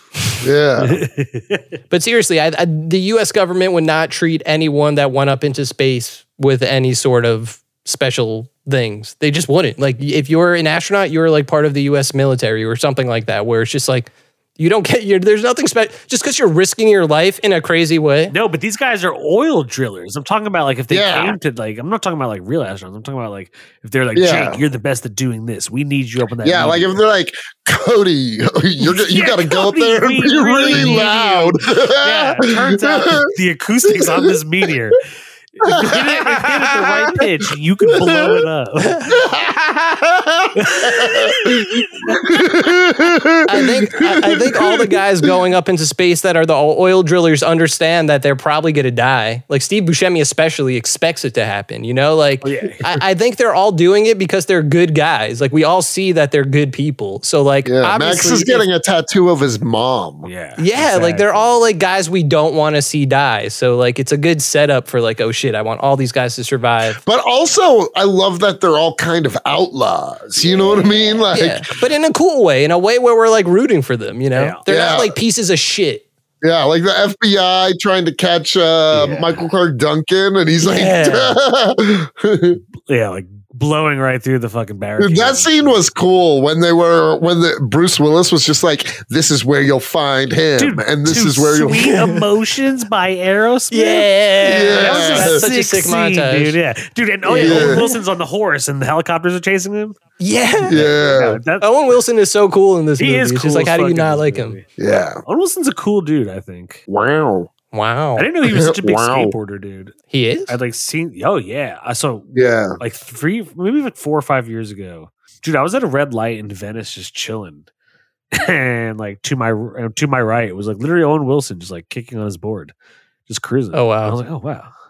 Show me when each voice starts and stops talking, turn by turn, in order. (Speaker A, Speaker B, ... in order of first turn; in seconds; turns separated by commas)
Speaker A: 0.4-1.0, Speaker B: 0.8-1.6, Speaker C: 1.9-18.3, Speaker B: 18.3-27.0, Speaker A: 20.9-21.4, Speaker A: 24.1-24.6, Speaker A: 26.4-33.3, Speaker B: 28.8-35.0, Speaker C: 30.7-31.0, Speaker A: 33.8-34.4, Speaker B: 35.5-39.2, Speaker A: 35.6-36.8, Speaker A: 37.9-38.4, Speaker C: 39.0-39.4, Speaker A: 39.1-45.0, Speaker B: 40.5-42.2, Speaker C: 43.5-58.6, Speaker B: 52.4-53.0, Speaker A: 57.6-60.3, Speaker B: 60.2-61.6, Speaker C: 60.6-67.0, Speaker A: 67.0-71.7, Speaker C: 70.5-76.0, Speaker B: 74.3-74.6, Speaker A: 74.7-75.1, Speaker A: 76.4-82.6, Speaker B: 78.9-79.4, Speaker C: 80.6-81.4, Speaker B: 82.9-85.8, Speaker A: 85.0-91.9, Speaker B: 90.6-94.1, Speaker C: 91.8-92.2, Speaker C: 93.7-96.5, Speaker A: 94.4-95.4, Speaker B: 94.7-100.0, Speaker C: 97.2-98.0, Speaker A: 97.3-97.8, Speaker C: 100.2-100.8, Speaker A: 100.7-101.4, Speaker B: 100.7-101.7, Speaker C: 101.6-104.6, Speaker B: 103.0-104.7, Speaker A: 104.8-105.2, Speaker B: 105.2-106.8, Speaker A: 106.9-107.5, Speaker C: 107.7-108.3, Speaker B: 108.2-109.9, Speaker A: 108.4-109.3, Speaker C: 110.1-110.5, Speaker B: 110.5-117.7, Speaker A: 112.3-112.8, Speaker B: 118.3-122.7, Speaker B: 123.3-124.7, Speaker C: 123.7-124.2